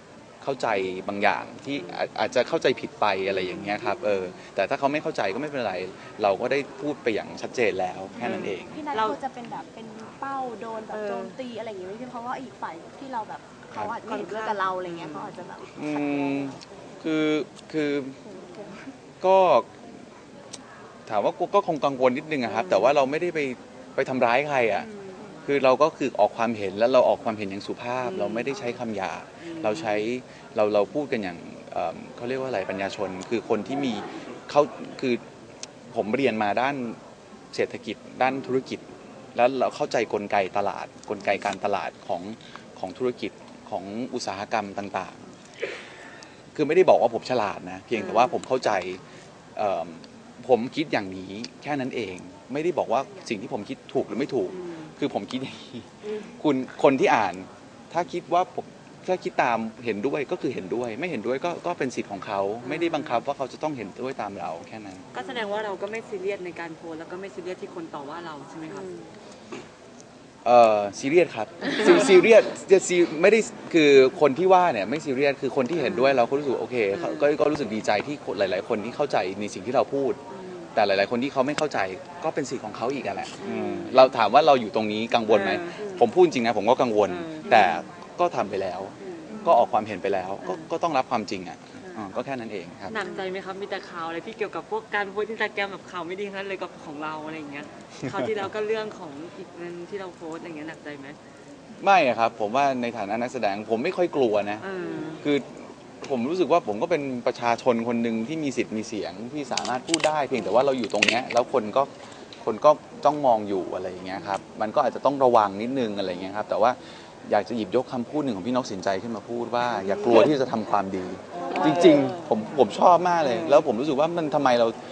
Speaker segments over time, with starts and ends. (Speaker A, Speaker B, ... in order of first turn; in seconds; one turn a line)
Speaker A: 0.4-8.8
Speaker B: 3.3-3.8
Speaker B: 8.2-9.2
Speaker C: 8.2-16.6
Speaker B: 10.9-11.4
Speaker B: 14.0-15.4
Speaker A: 15.8-18.2
Speaker C: 18.2-18.9
Speaker A: 19.2-19.7
Speaker A: 21.1-24.9
Speaker B: 22.4-23.0
Speaker B: 24.7-25.2
Speaker A: 25.4-35.2
Speaker B: 28.0-28.5
Speaker B: 29.4-30.1
Speaker A: 35.9-37.0
Speaker A: 37.5-38.8
Speaker B: 38.2-38.5
Speaker A: 39.3-45.2
Speaker A: 46.5-49.0
Speaker B: 48.0-48.4
Speaker A: 49.5-65.1
Speaker B: 54.5-54.9
Speaker C: 56.1-56.3
Speaker B: 62.6-63.2
Speaker B: 65.1-68.9
Speaker C: 68.7-69.1
Speaker A: 70.4-80.2
Speaker B: 71.7-72.1
Speaker B: 75.8-76.2
Speaker B: 76.9-77.3
Speaker B: 80.4-80.7
Speaker A: 80.7-92.9
Speaker B: 83.4-84.2
Speaker B: 85.2-85.9
Speaker C: 85.8-86.1
Speaker B: 87.0-87.8
Speaker C: 89.2-89.6
Speaker B: 89.3-89.6
Speaker B: 90.4-90.7
Speaker B: 91.8-92.1
Speaker B: 92.9-101.2
Speaker C: 92.9-93.3
Speaker A: 101.8-104.6
Speaker B: 104.6-105.2
Speaker C: 104.8-105.2
Speaker A: 105.2-111.9
Speaker B: 110.3-110.6
Speaker A: 112.4-124.8
Speaker B: 114.1-114.4
Speaker B: 119.7-120.3
Speaker B: 121.3-122.3
Speaker C: 121.4-122.1
Speaker B: 123.2-123.7